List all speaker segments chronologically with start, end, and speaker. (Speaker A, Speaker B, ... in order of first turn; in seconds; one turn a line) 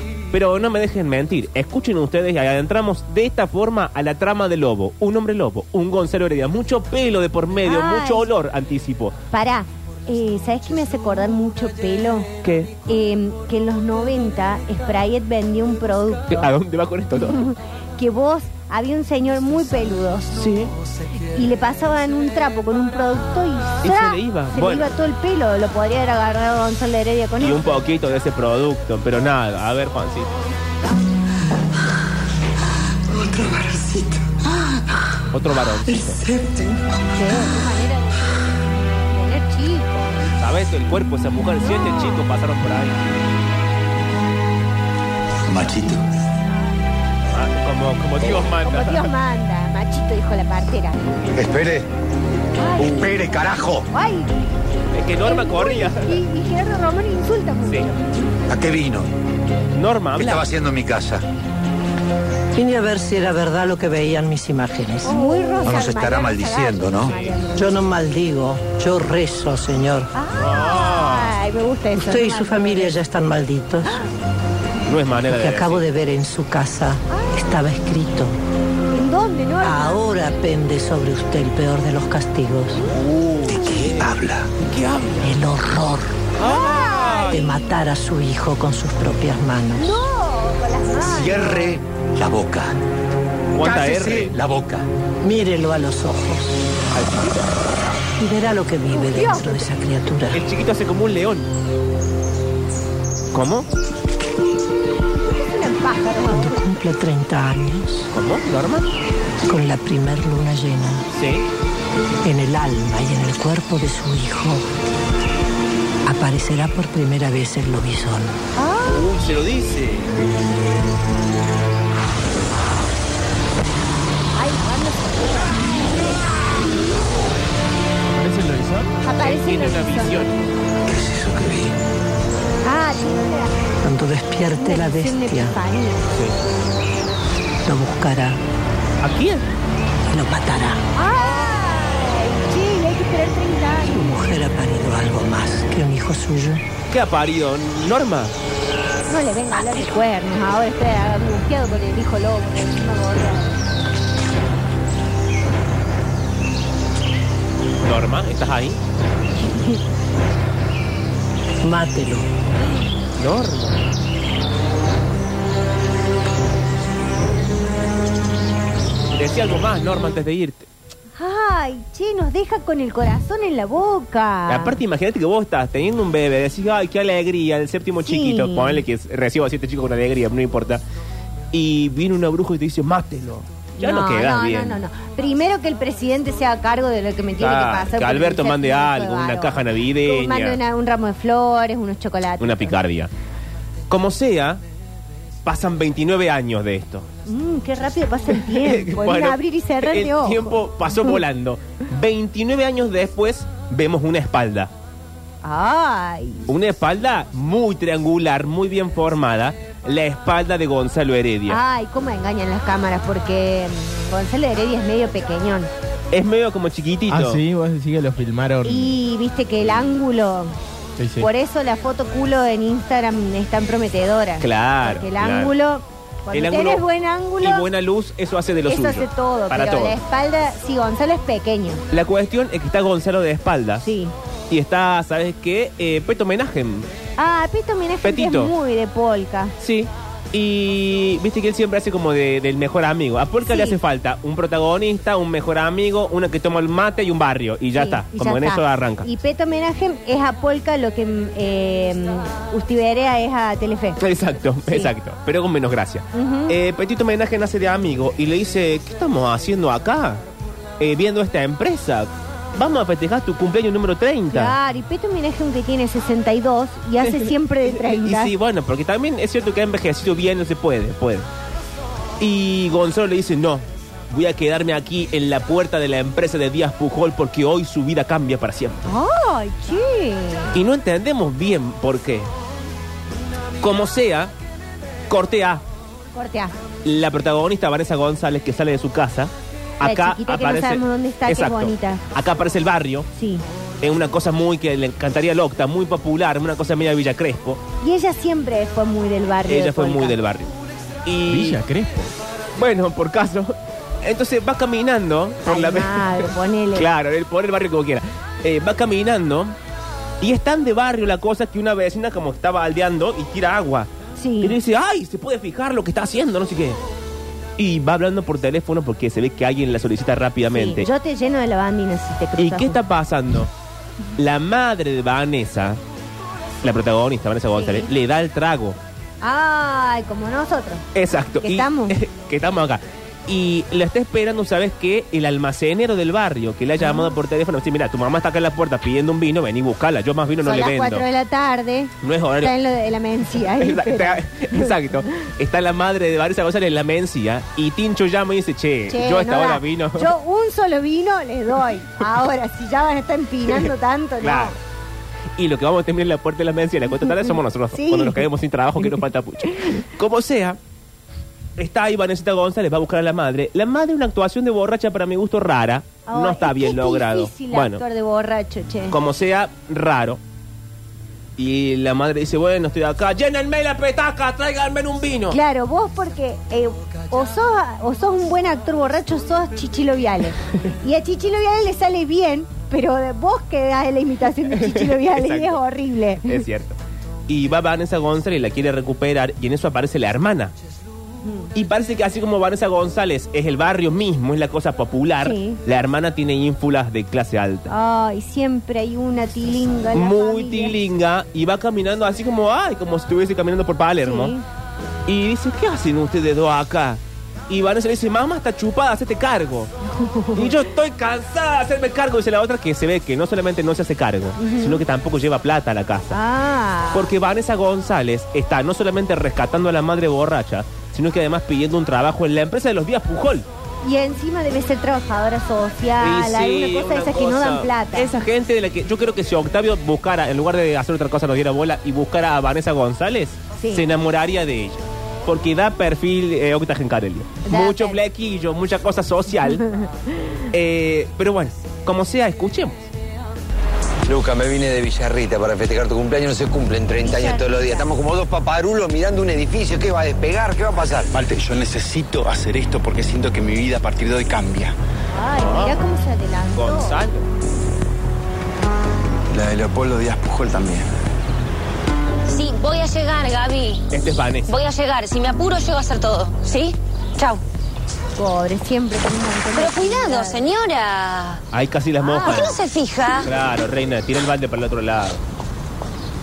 Speaker A: 0.3-9.2
Speaker B: 7.6-8.3
Speaker B: 9.3-12.3
Speaker A: 12.4-12.7
Speaker B: 12.9-16.5
Speaker A: 16.3-17.4
Speaker B: 17.2-20.5
Speaker A: 20.3-20.7
Speaker B: 21.3-27.7
Speaker A: 23.8-24.9
Speaker A: 27.4-30.3
Speaker A: 35.3-36.2
Speaker B: 37.1-40.2
Speaker A: 40.4-43.0
Speaker B: 41.6-42.2
Speaker C: 45.5-46.0
Speaker A: 47.3-49.1
Speaker B: 48.2-51.4
Speaker C: 51.3-51.9
Speaker B: 52.6-54.3
Speaker C: 52.8-53.9
Speaker A: 54.9-56.2
Speaker B: 55.2-58.3
Speaker A: 57.7-57.9
Speaker C: 58.5-59.1
Speaker A: 59.7-60.5
Speaker C: 60.2-61.2
Speaker D: 62.5-65.6
Speaker B: 65.0-67.8
Speaker C: 65.6-67.1
Speaker A: 67.0-67.3
Speaker D: 67.6-70.1
Speaker B: 70.1-73.0
Speaker A: 70.4-71.4
Speaker D: 72.0-74.0
Speaker A: 74.9-75.8
Speaker D: 75.3-78.4
Speaker B: 77.1-77.5
Speaker B: 78.9-80.0
Speaker D: 79.6-82.8
Speaker A: 82.8-84.1
Speaker A: 84.7-85.3
Speaker D: 85.2-86.2
Speaker A: 86.4-87.4
Speaker B: 86.4-87.7
Speaker D: 87.3-89.9
Speaker B: 89.8-91.8
Speaker C: 91.0-92.8
Speaker A: 93.5-94.4
Speaker E: 93.7-94.3
Speaker C: 93.8-94.8
Speaker D: 95.2-96.5
Speaker A: 96.9-97.5
Speaker D: 98.2-100.4
Speaker B: 98.9-99.7
Speaker A: 100.3-101.5
Speaker A: 103.3-103.7
Speaker B: 105.3-106.6
Speaker D: 106.3-108.1
Speaker A: 108.1-108.9
Speaker D: 109.5-111.1
Speaker A: 111.1-111.5
Speaker D: 112.2-114.7
Speaker D: 116.1-118.4
Speaker B: 118.6-119.1
Speaker A: 118.9-120.1
Speaker B: 124.3-126.1
Speaker F: 128.1-128.9
Speaker B: 129.0-130.3
Speaker A: 129.2-130.4
Speaker C: 130.9-131.7
Speaker B: 132.7-133.5
Speaker D: 133.8-135.6
Speaker B: 134.6-136.1
Speaker D: 137.7-138.4
Speaker A: 139.0-139.5
Speaker D: 140.1-140.8
Speaker B: 141.0-144.2
Speaker D: 143.9-146.6
Speaker A: 146.9-148.3
Speaker B: 149.1-153.6
Speaker A: 157.8-158.8
Speaker D: 161.6-162.3
Speaker A: 163.2-163.8
Speaker A: 169.2-170.7
Speaker B: 171.2-174.8
Speaker A: 174.5-180.8
Speaker B: 178.0-178.8
Speaker A: 181.5-184.8
Speaker B: 183.8-192.8
Speaker A: 187.4-190.6
Speaker A: 192.4-193.1
Speaker A: 193.9-194.6
Speaker A: 195.4-197.1
Speaker B: 197.3-200.6
Speaker A: 198.4-204.7
Speaker B: 205.4-206.5
Speaker A: 206.5-211.6
Speaker B: 211.5-215.7
Speaker A: 216.1-217.4
Speaker F: 217.1-218.9
Speaker B: 218.6-220.6
Speaker F: 221.0-221.3
Speaker B: 221.2-227.7
Speaker A: 224.4-225.6
Speaker A: 226.3-226.9
Speaker A: 227.4-230.0
Speaker B: 228.7-231.8
Speaker A: 231.9-233.9
Speaker B: 233.8-234.1
Speaker A: 234.5-236.9
Speaker B: 237.2-239.5
Speaker A: 238.0-238.5
Speaker A: 239.6-249.1
Speaker B: 243.4-243.8
Speaker B: 247.8-254.0
Speaker A: 254.0-260.2
Speaker B: 254.7-254.9
Speaker B: 256.1-256.6
Speaker A: 260.8-264.6
Speaker B: 264.3-268.3
Speaker A: 267.0-271.3
Speaker A: 272.2-278.9
Speaker B: 278.9-280.6
Speaker A: 280.5-282.3
Speaker A: 283.6-284.3
Speaker A: 285.1-285.6
Speaker B: 286.1-286.6
Speaker A: 286.9-293.1
Speaker B: 289.8-292.0
Speaker B: 293.1-293.4
Speaker A: 293.8-297.6
Speaker B: 297.8-300.1
Speaker A: 299.5-300.5
Speaker A: 301.1-301.6
Speaker F: 301.3-302.1
Speaker A: 302.6-309.6
Speaker B: 305.4-306.9
Speaker A: 310.2-313.9
Speaker B: 314.2-314.6
Speaker A: 314.4-316.8
Speaker A: 317.6-320.9
Speaker B: 320.5-322.8
Speaker A: 322.4-323.5
Speaker A: 324.2-325.8
Speaker A: 326.6-328.8
Speaker B: 327.5-327.9
Speaker B: 329.2-330.9
Speaker A: 330.9-341.1
Speaker B: 331.4-332.0
Speaker B: 336.8-337.1
Speaker B: 340.4-344.8
Speaker A: 342.0-342.5
Speaker A: 343.6-350.1
Speaker B: 348.9-354.6
Speaker A: 354.2-354.6
Speaker A: 355.4-360.6
Speaker B: 357.8-358.2
Speaker A: 361.6-367.8
Speaker B: 366.1-369.0
Speaker A: 368.9-370.2
Speaker A: 371.4-375.4
Speaker B: 375.3-386.4
Speaker A: 384.5-385.6
Speaker A: 386.2-386.8
Speaker A: 387.3-390.5
Speaker B: 391.2-391.5
Speaker A: 391.6-397.7
Speaker B: 395.2-395.6
Speaker B: 397.7-400.8
Speaker A: 399.9-404.4
Speaker B: 404.0-404.4
Speaker A: 405.1-409.7
Speaker B: 409.9-410.6
Speaker A: 410.4-416.2
Speaker B: 414.4-414.8
Speaker B: 416.1-417.1
Speaker A: 416.9-423.5
Speaker B: 423.8-428.1
Speaker A: 426.0-439.6
Speaker B: 433.6-433.8
Speaker B: 437.4-438.0
Speaker B: 439.6-439.9
Speaker A: 440.5-442.9
Speaker C: 444.1-451.1
Speaker B: 447.0-447.9
Speaker E: 451.1-454.8
Speaker B: 455.1-457.0
Speaker A: 455.4-455.8
Speaker A: 456.6-457.3
Speaker E: 459.3-460.8
Speaker G: 462.3-463.8
Speaker A: 463.9-464.5
Speaker G: 464.5-467.4
Speaker B: 468.2-470.4
Speaker G: 469.5-471.4
Speaker A: 471.5-472.6
Speaker B: 472.0-472.6
Speaker G: 472.2-473.3
Speaker A: 473.2-475.2